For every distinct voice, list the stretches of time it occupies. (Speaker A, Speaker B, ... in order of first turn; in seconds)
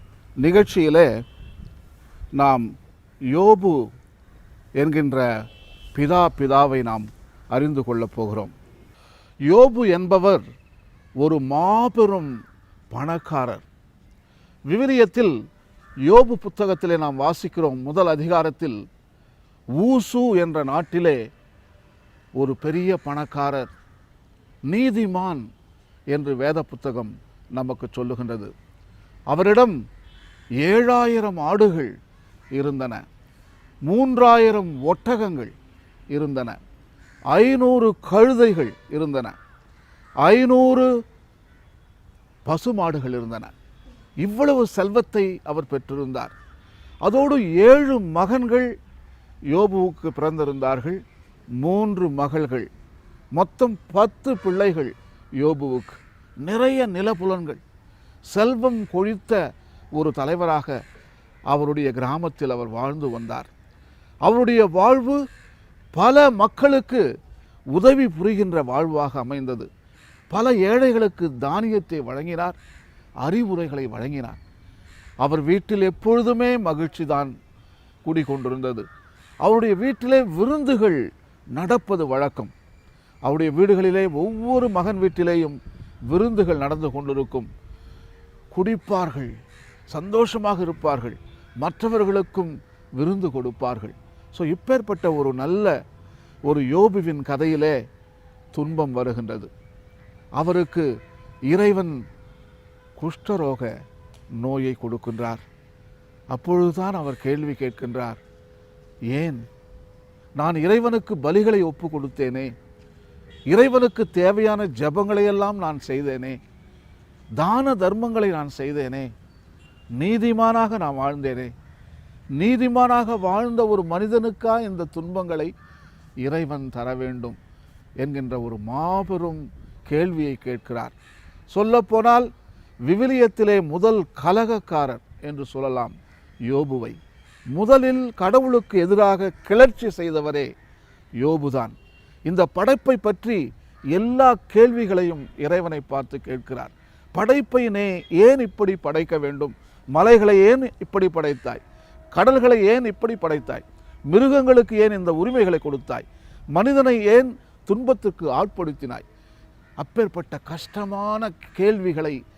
Speaker A: 0.4-1.1, 2.4-2.7, 3.3-3.9, 4.8-5.3, 6.0-8.5, 9.5-10.4, 11.2-12.3, 12.9-13.7, 14.7-15.3, 16.1-18.8, 19.8-21.2, 22.4-23.7, 24.7-25.4, 26.1-28.5, 29.3-29.7, 30.6-31.9, 32.5-33.0, 33.9-35.5, 36.1-36.6, 37.3-39.4, 40.2-40.9, 42.5-43.5, 44.2-46.3, 47.0-48.7, 49.5-51.0, 51.6-52.7, 53.3-57.6, 58.3-59.4, 60.0-60.7, 61.5-63.5, 64.2-65.2, 65.9-67.0, 67.7-69.7, 70.3-72.6, 73.2-74.4, 75.2-77.3, 78.0-78.8, 79.4-82.5, 83.2-85.6, 86.1-87.5, 88.5-89.3, 89.9-95.7, 96.5-97.8, 98.5-99.5, 100.4-100.9, 101.5-102.0, 103.0-103.7, 104.4-105.4, 106.3-108.2, 109.1-109.5, 110.4-112.5, 113.5-116.4, 117.4-119.1, 120.0-121.5, 122.4-125.5, 126.2-127.4, 128.0-130.9, 131.5-132.3, 132.9-135.9, 136.5-137.0, 137.5-140.5, 141.2-141.7, 142.3-143.4, 143.9-151.6, 152.1-159.0, 159.8-162.2